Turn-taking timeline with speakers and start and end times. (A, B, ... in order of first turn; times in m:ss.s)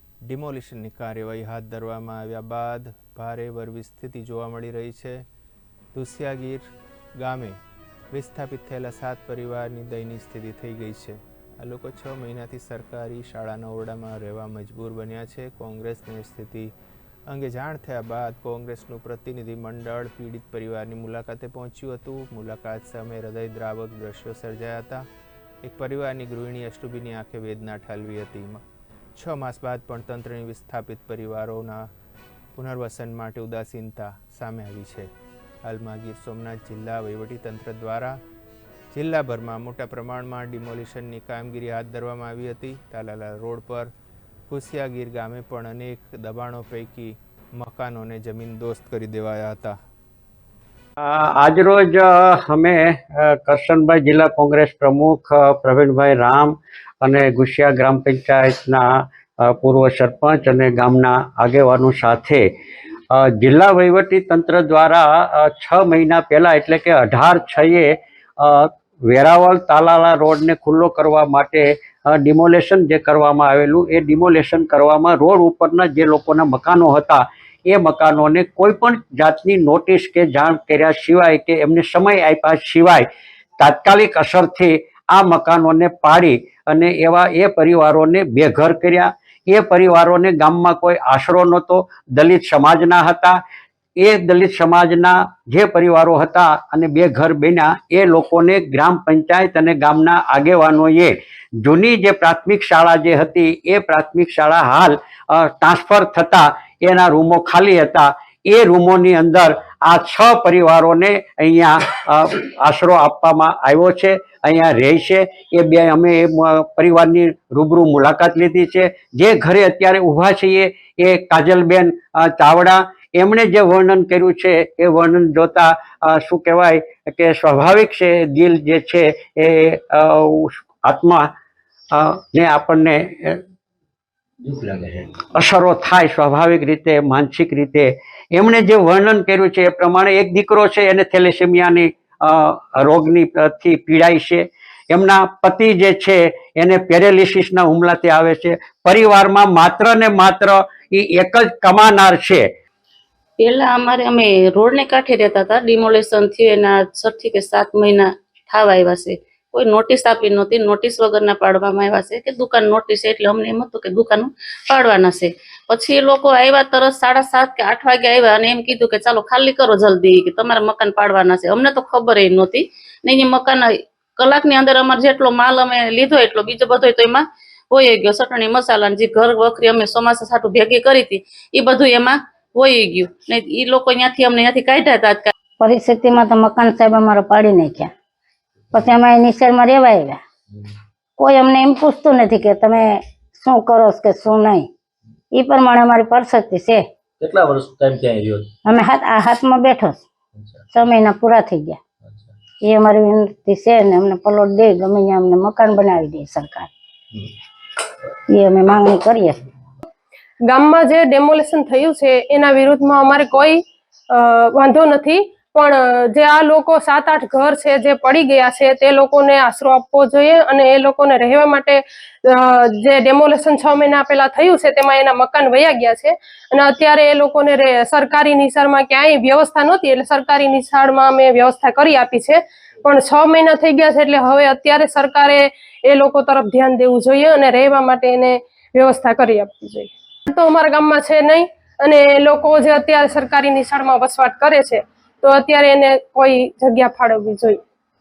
0:00.3-0:05.2 A
0:05.9-0:06.6 A
0:07.2-0:07.6 A
0:08.1-0:16.7 A
0:17.3-0:25.0 A
0:25.6-0:28.6 A
0:29.2-0:31.8 A
0:32.5-0:35.1 A
0:35.6-0:38.2 A
0:38.9-0:43.9 A
0:44.5-0:49.7 A
0:51.0-0:58.9 B
0:59.4-1:02.5 B
1:03.1-1:23.0 B
1:23.6-1:33.4 B
1:34.0-2:11.3 B
2:11.9-2:13.4 B
2:14.4-2:15.1 C
2:15.4-2:32.4 B
2:33.4-2:53.6 D
2:54.2-3:05.3 D
3:05.6-3:07.9 E
3:08.7-3:10.2 E
3:11.2-3:14.7 E
3:15.3-3:16.9 E
3:17.2-3:18.5 C
3:18.6-3:20.0 E
3:20.4-3:20.6 C
3:20.7-3:21.8 E
3:22.6-3:26.7 E
3:28.3-3:29.4 E
3:30.5-3:33.6 F
3:34.1-4:07.6 F